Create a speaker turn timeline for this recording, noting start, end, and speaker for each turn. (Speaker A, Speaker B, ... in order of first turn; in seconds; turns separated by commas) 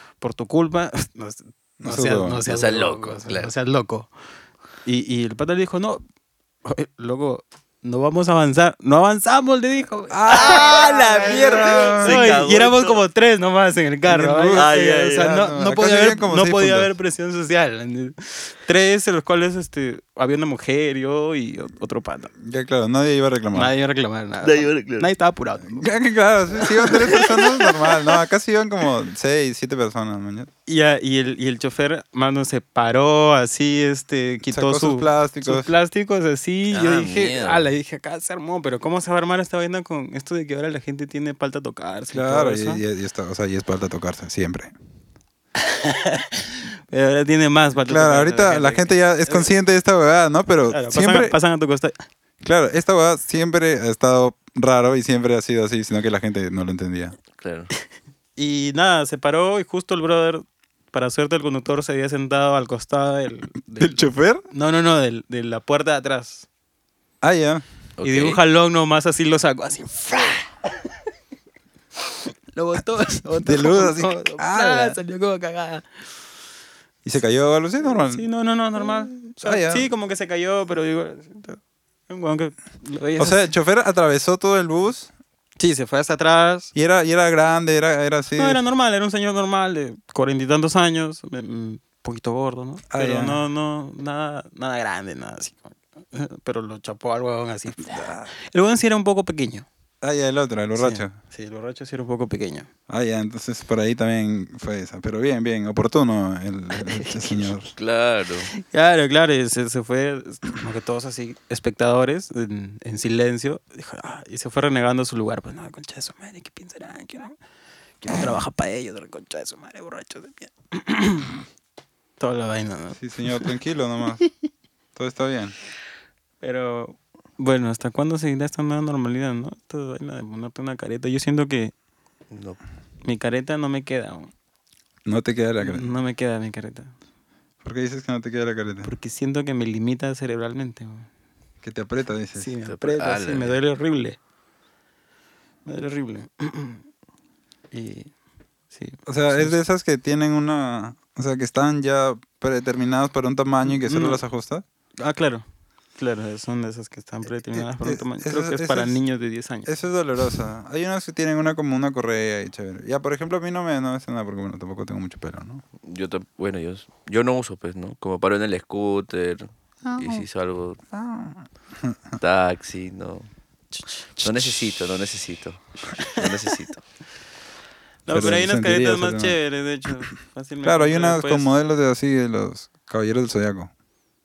Speaker A: 0.2-4.1, Speaker B: 1.8-2.4, Speaker C: 2.5-3.5, Speaker A: 4.8-6.0, Speaker A: 6.6-22.3, Speaker B: 10.1-12.4, Speaker C: 10.3-13.0, Speaker B: 14.1-16.9, Speaker C: 14.5-15.3, Speaker B: 22.4-23.7, Speaker A: 23.5-25.9, Speaker C: 24.4-25.1, Speaker B: 25.7-30.5, Speaker A: 26.6-28.1, Speaker A: 30.6-42.8, Speaker B: 34.5-35.7, Speaker C: 36.7-37.6, Speaker B: 42.1-44.7, Speaker A: 45.6-49.5, Speaker B: 47.9-51.3, Speaker A: 50.7-52.0, Speaker B: 52.4-57.2, Speaker C: 57.4-57.7, Speaker A: 58.4-66.5, Speaker B: 63.8-64.4, Speaker B: 67.2-67.6, Speaker C: 68.0-68.4, Speaker A: 68.0-70.5, Speaker A: 72.5-75.8, Speaker B: 73.4-75.0, Speaker B: 77.0-78.2, Speaker A: 78.0-83.5, Speaker B: 79.4-79.9, Speaker B: 83.2-85.1, Speaker A: 85.6-86.7, Speaker B: 86.7-88.6, Speaker A: 88.4-99.7, Speaker B: 92.9-93.4, Speaker B: 97.8-98.3, Speaker B: 100.0-101.1, Speaker A: 100.7-102.7, Speaker B: 102.9-107.7, Speaker A: 106.9-107.4, Speaker C: 107.7-108.5, Speaker A: 108.5-117.3, Speaker A: 118.0-121.3, Speaker A: 122.2-123.5, Speaker B: 123.0-124.2, Speaker B: 125.0-125.5, Speaker A: 126.4-131.7, Speaker C: 132.3-132.6, Speaker A: 133.0-134.3, Speaker B: 135.0-135.9, Speaker A: 135.6-136.9, Speaker B: 137.6-138.9, Speaker A: 138.8-141.1, Speaker B: 141.6-142.5, Speaker A: 142.3-144.2, Speaker C: 142.7-143.6, Speaker A: 145.7-146.8, Speaker A: 147.7-148.1, Speaker A: 148.7-149.6, Speaker B: 149.1-154.6, Speaker A: 153.7-154.2, Speaker A: 155.0-155.4, Speaker A: 156.0-159.7, Speaker B: 157.5-159.0, Speaker B: 159.7-165.6, Speaker C: 165.8-170.8, Speaker B: 169.9-170.2, Speaker B: 170.9-172.1, Speaker C: 172.2-173.3, Speaker B: 174.2-174.6, Speaker C: 174.2-176.8, Speaker A: 178.1-181.5, Speaker B: 178.1-179.4, Speaker B: 180.6-183.7